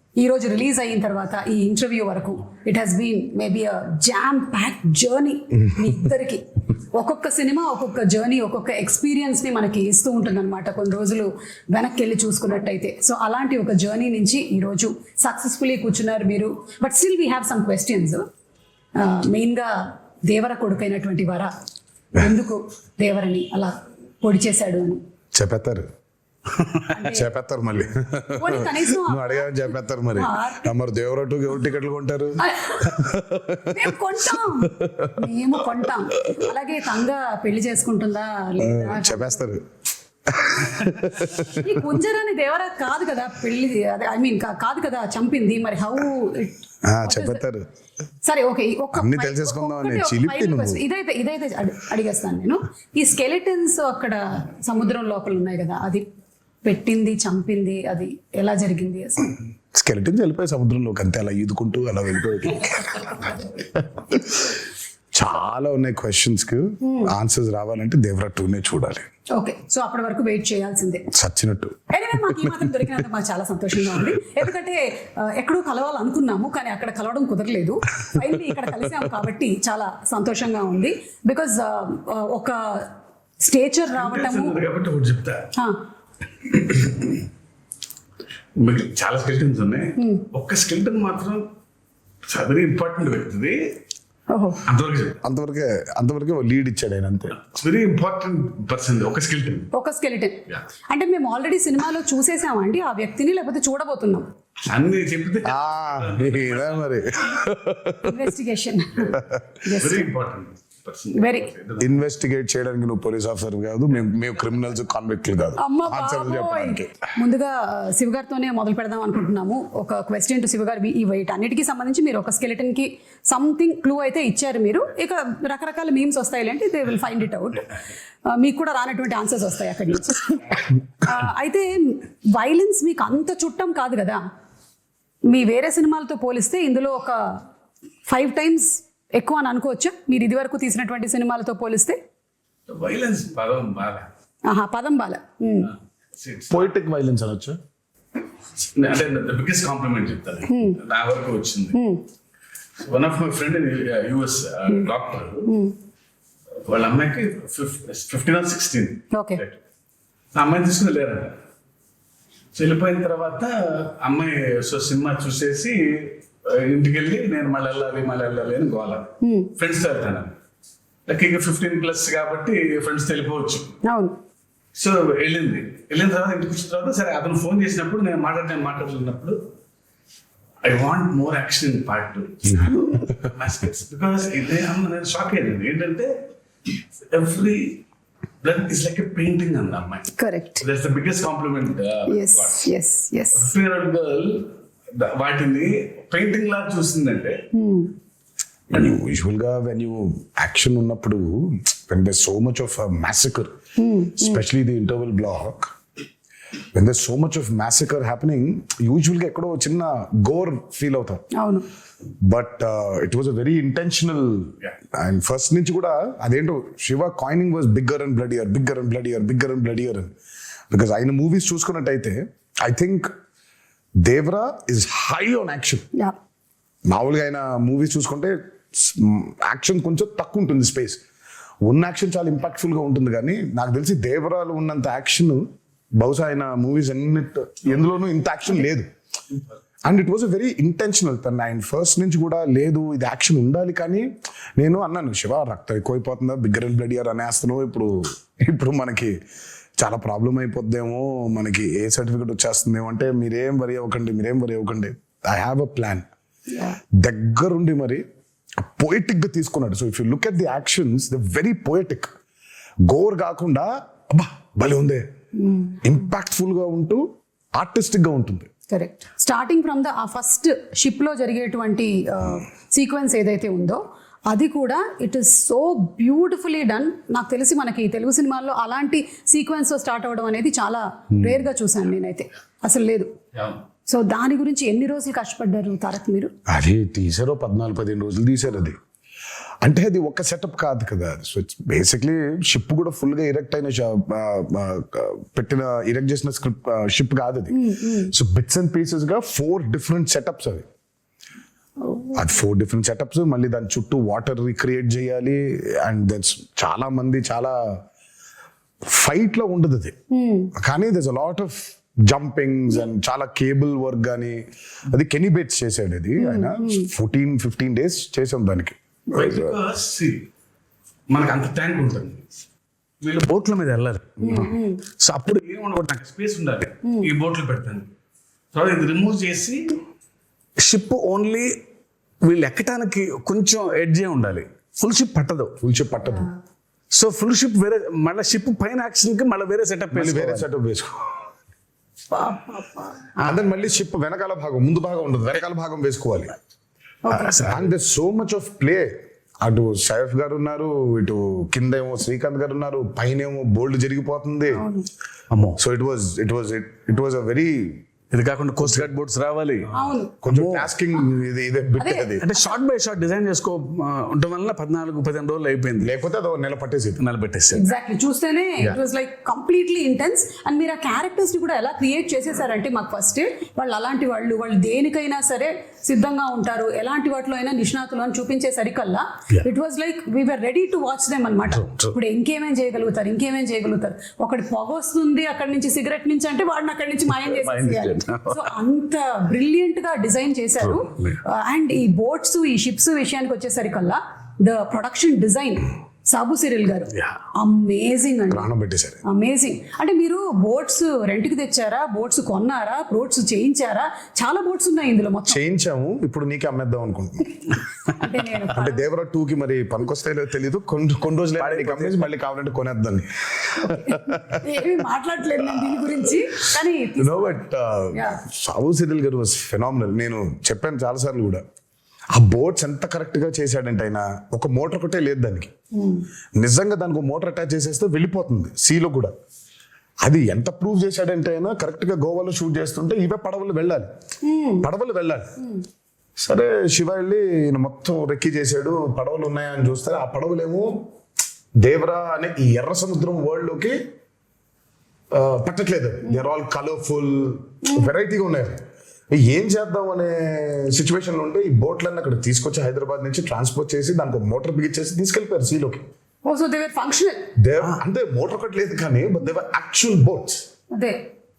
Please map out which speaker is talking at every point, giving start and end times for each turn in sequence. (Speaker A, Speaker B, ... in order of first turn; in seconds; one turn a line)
Speaker A: 0.2-18.3
Speaker A: 19.0-19.7
Speaker A: 20.2-21.5
Speaker A: 22.2-25.0
Speaker B: 25.3-25.9
Speaker C: 26.6-26.9
Speaker A: 26.9-27.3
Speaker B: 27.1-34.0
Speaker A: 28.4-29.6
Speaker A: 30.2-30.7
Speaker A: 32.4-33.1
Speaker A: 33.7-39.4
Speaker B: 38.6-39.6
Speaker B: 40.3-41.7
Speaker A: 41.4-47.4
Speaker B: 46.9-47.6
Speaker A: 48.2-56.0
Speaker B: 48.9-50.8
Speaker A: 56.6-59.4
Speaker B: 59.7-64.5
Speaker A: 62.9-63.4
Speaker B: 65.1-69.1
Speaker A: 66.8-67.1
Speaker A: 69.4-71.0
Speaker B: 71.1-72.8
Speaker A: 71.9-82.9
Speaker A: 83.4-84.6
Speaker C: 84.0-85.5
Speaker C: 86.5-87.2
Speaker C: 88.6-91.5
Speaker A: 90.0-90.2
Speaker C: 92.3-93.6
Speaker A: 94.3-94.6
Speaker C: 94.7-95.2
Speaker B: 95.2-97.4
Speaker C: 97.4-99.7
Speaker A: 99.7-104.3
Speaker C: 104.7-107.5
Speaker B: 105.4-108.2
Speaker A: 108.0-110.1
Speaker C: 109.7-112.0
Speaker A: 111.2-111.5
Speaker B: 111.8-117.0
Speaker A: 115.6-127.7
Speaker A: 128.3-134.2
Speaker A: 135.3-137.4
Speaker A: 138.1-142.0
Speaker C: 142.7-144.1
Speaker A: 144.5-145.7
Speaker C: 146.2-146.7
Speaker B: 146.5-147.6
Speaker C: 148.7-151.8
Speaker A: 150.5-150.8
Speaker A: 151.7-152.0
Speaker C: 152.8-155.5
Speaker A: 155.5-155.8
Speaker C: 156.7-159.6
Speaker A: 159.1-159.4
Speaker C: 160.3-161.4
Speaker C: 162.6-170.3
Speaker A: 169.2-169.5
Speaker C: 171.1-173.7
Speaker A: 173.8-174.2
Speaker C: 174.8-179.4
Speaker C: 180.6-186.1
Speaker C: 187.1-187.8
Speaker C: 188.4-192.6
Speaker A: 190.2-190.6
Speaker A: 192.1-193.5
Speaker C: 193.4-197.4
Speaker A: 197.5-197.9
Speaker B: 198.7-203.5
Speaker A: 203.8-204.4
Speaker B: 204.2-205.7
Speaker B: 206.7-211.2
Speaker A: 211.3-211.7
Speaker B: 212.2-220.1
Speaker B: 220.7-223.1
Speaker B: 224.0-225.8
Speaker B: 226.9-231.0
Speaker B: 231.7-235.4
Speaker B: 236.0-238.9
Speaker B: 239.8-249.1
Speaker B: 249.8-256.1
Speaker A: 256.5-256.8
Speaker B: 257.0-258.0
Speaker B: 258.6-262.1
Speaker B: 262.9-265.0
Speaker A: 265.4-265.8
Speaker B: 265.8-267.0
Speaker B: 267.6-268.5
Speaker A: 268.7-283.1
Speaker A: 283.9-286.3
Speaker B: 286.5-288.8
Speaker B: 289.6-300.7
Speaker A: 297.5-298.1
Speaker A: 301.8-302.3
Speaker B: 302.1-307.8
Speaker B: 308.9-309.9
Speaker A: 310.1-310.5
Speaker B: 310.6-319.6
Speaker A: 316.2-316.9
Speaker C: 319.1-320.2
Speaker C: 321.1-322.3
Speaker C: 323.0-327.9
Speaker A: 324.2-324.8
Speaker C: 328.5-329.8
Speaker C: 330.6-331.5
Speaker C: 332.2-335.6
Speaker B: 335.6-336.3
Speaker C: 336.9-340.5
Speaker B: 339.9-341.2
Speaker A: 342.1-343.1
Speaker B: 343.2-346.4
Speaker A: 347.1-347.4
Speaker C: 347.1-347.7
Speaker B: 347.4-354.6
Speaker A: 354.5-354.9
Speaker C: 355.3-355.6
Speaker B: 355.6-357.8
Speaker C: 358.1-359.7
Speaker B: 358.6-358.9
Speaker A: 359.7-360.2
Speaker B: 360.2-362.3
Speaker C: 360.2-360.7
Speaker A: 361.8-362.5
Speaker C: 362.2-365.9
Speaker B: 365.8-367.0
Speaker C: 367.0-367.7
Speaker A: 367.5-398.5
Speaker C: 381.5-381.9
Speaker C: 387.1-388.6
Speaker C: 390.6-391.2
Speaker B: 398.3-399.0
Speaker A: 399.1-405.4
Speaker B: 405.3-407.4
Speaker A: 407.9-408.9
Speaker B: 408.5-414.4
Speaker C: 411.4-412.1
Speaker A: 413.6-417.4
Speaker B: 415.6-415.9
Speaker B: 417.0-421.4
Speaker A: 417.9-418.2
Speaker B: 422.1-425.5
Speaker A: 425.7-426.1
Speaker B: 426.4-429.1
Speaker B: 430.0-433.9
Speaker A: 434.2-434.7
Speaker B: 434.6-435.3
Speaker B: 436.2-440.8
Speaker B: 441.6-443.8
Speaker B: 445.1-448.6
Speaker A: 447.6-447.9
Speaker B: 449.1-455.9
Speaker A: 456.2-457.3
Speaker B: 457.4-460.4
Speaker A: 460.7-461.0